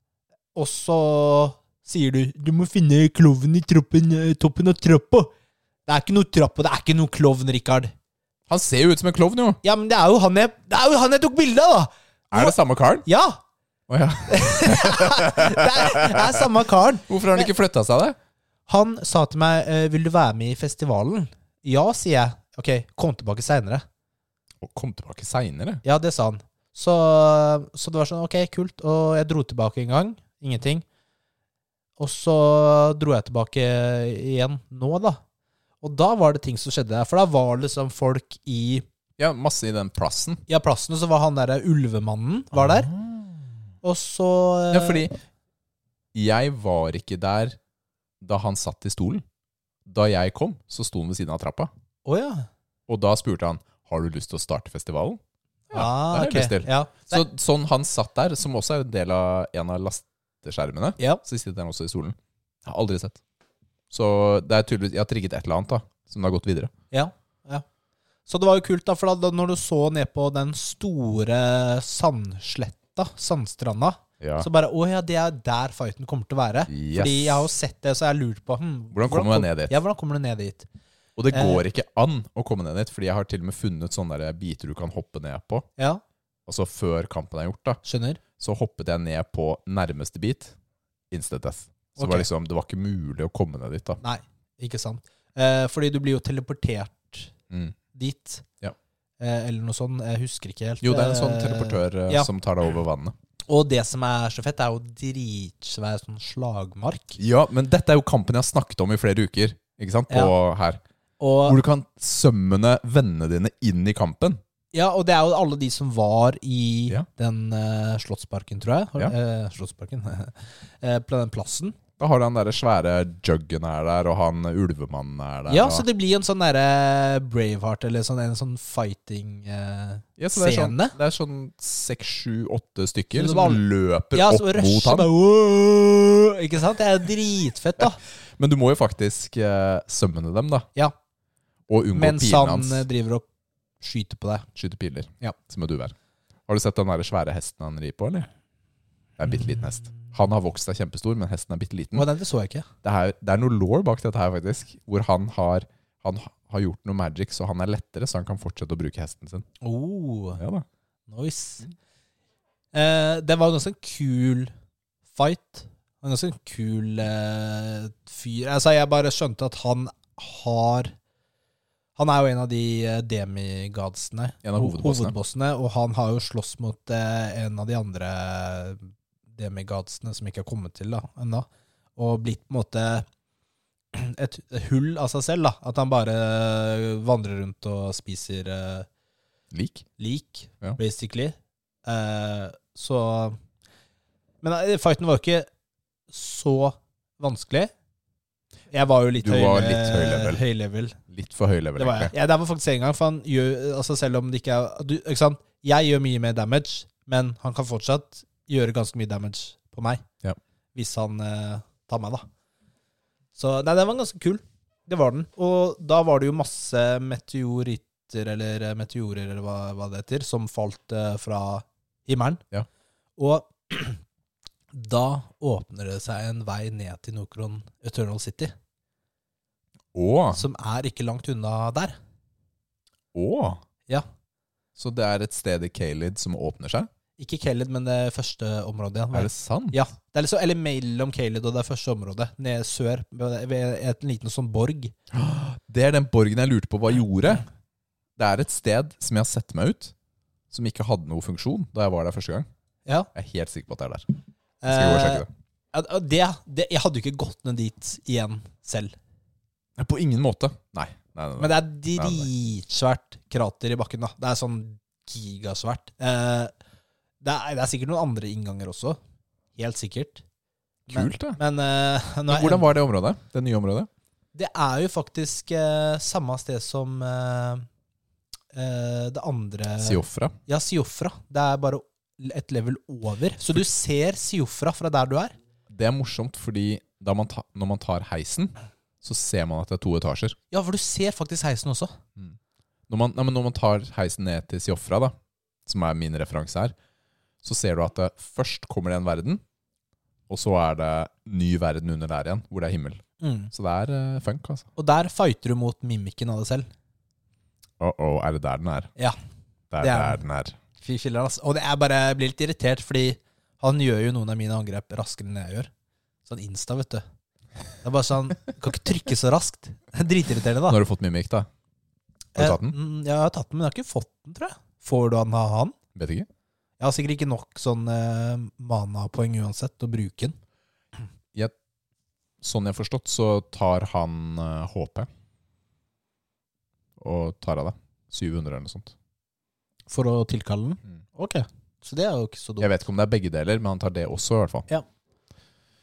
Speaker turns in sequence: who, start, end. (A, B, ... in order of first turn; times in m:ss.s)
0:00.5-0:05.3 A
0:05.8-0:07.9 A
0:08.5-0:09.6 B
0:09.6-0:12.5 A
0:12.3-0:13.1 B
0:13.0-0:13.4 A
0:13.9-0:16.3 B
0:14.3-0:17.5 A
0:17.1-0:18.2 B
0:18.7-0:23.8 A
0:24.6-0:25.8 B
0:25.8-0:30.8 A
0:32.0-0:35.2 A
0:35.8-0:38.8 A
0:39.2-0:40.4 B
0:40.5-0:42.9 A
0:42.7-0:43.2 B
0:43.8-0:45.1 A
0:44.7-0:45.2 B
0:46.1-0:47.6 B
0:48.2-0:49.2 B
0:49.8-0:51.7 B
0:52.0-0:52.5 A
0:52.9-0:55.2 B
0:55.7-1:03.2 B
0:55.7-0:57.2 A
1:03.9-1:06.7 B
1:06.9-1:07.6 A
1:08.3-1:20.7 A
1:14.2-1:14.5 B
1:16.7-1:17.5 B
1:18.9-1:19.7 B
1:21.2-1:25.7 B
1:21.3-1:21.6 A
1:25.8-1:26.0 A
1:26.5-1:27.8 B
1:27.8-1:28.2 A
1:28.4-1:30.5 B
1:31.1-1:34.0 B
1:32.0-1:32.3 A
1:34.0-1:37.3 A
1:37.5-1:37.7 B
1:37.9-1:38.4 A
1:39.2-1:42.3 A
1:40.8-1:43.1 B
1:43.5-1:47.2 A
1:47.2-1:50.8 B
1:51.2-1:51.6 A
1:51.5-1:54.4 B
1:54.7-2:01.8 A
2:02.0-2:05.8 B
2:05.5-2:10.9 A
2:10.2-2:15.1 B
2:13.1-2:18.0 A
2:18.4-2:20.7 B
2:21.7-2:22.9 B
2:21.9-2:23.2 A
2:23.8-2:24.5 A
2:24.5-2:25.9 B
2:26.5-2:28.3 B
2:29.2-2:32.0 B
2:31.9-2:32.7 A
2:32.8-2:39.4 B
2:39.6-2:40.4 A
2:40.4-2:40.6 B
2:41.1-2:41.7 A
2:42.7-2:44.5 A
2:45.1-2:50.9 A
2:52.0-3:03.0 A
2:54.4-2:55.1 B
3:03.9-3:08.9 A
3:09.5-3:09.8 B
3:10.0-3:13.4 A
3:14.4-3:15.4 A
3:16.1-3:17.7 A
3:18.7-3:21.0 A
3:19.2-3:20.4 B
3:21.1-3:22.1 B
3:21.8-3:30.0 A
3:30.7-3:32.2 A
3:33.3-3:42.4 A
3:43.2-3:44.0 A
3:44.7-3:48.5 A
3:49.9-3:50.4 B
3:50.3-3:52.0 A
3:53.1-3:53.6 B
3:54.8-3:56.9 B
3:57.2-4:04.9 A
3:59.1-3:59.8 B
4:05.1-4:07.4 B
4:08.2-4:09.9 B
4:10.5-4:12.5 B
4:13.1-4:14.1 B
4:14.6-4:19.0 A
4:14.7-4:15.3 B
4:19.8-4:22.3 B
4:21.4-4:26.5 A
4:27.2-4:29.0 A
4:29.6-4:30.2 A
4:30.9-4:31.4 B
4:30.9-4:32.6 A
4:32.3-4:33.9 B
4:34.3-4:37.6 A
4:38.5-4:45.3 A
4:39.8-4:40.4 B
4:45.7-4:50.4 B
4:50.5-4:51.9 A
4:52.9-4:56.7 B
4:57.4-4:59.4 B
5:00.3-5:04.7 B
5:03.2-5:03.5 A
5:04.8-5:06.7 A
5:07.8-5:08.9 B
5:09.7-5:10.6 B
5:09.8-5:10.2 A
5:10.8-5:15.7 A
5:16.2-5:17.0 A
5:17.8-5:20.8 A
5:20.7-5:21.5 B
5:22.4-5:22.8 B
5:22.4-5:25.8 A
5:25.9-5:26.3 B
5:26.8-5:30.4 A
5:32.4-5:35.1 B
5:37.0-5:38.9 B
5:39.9-5:42.7 A
5:42.6-5:44.7 B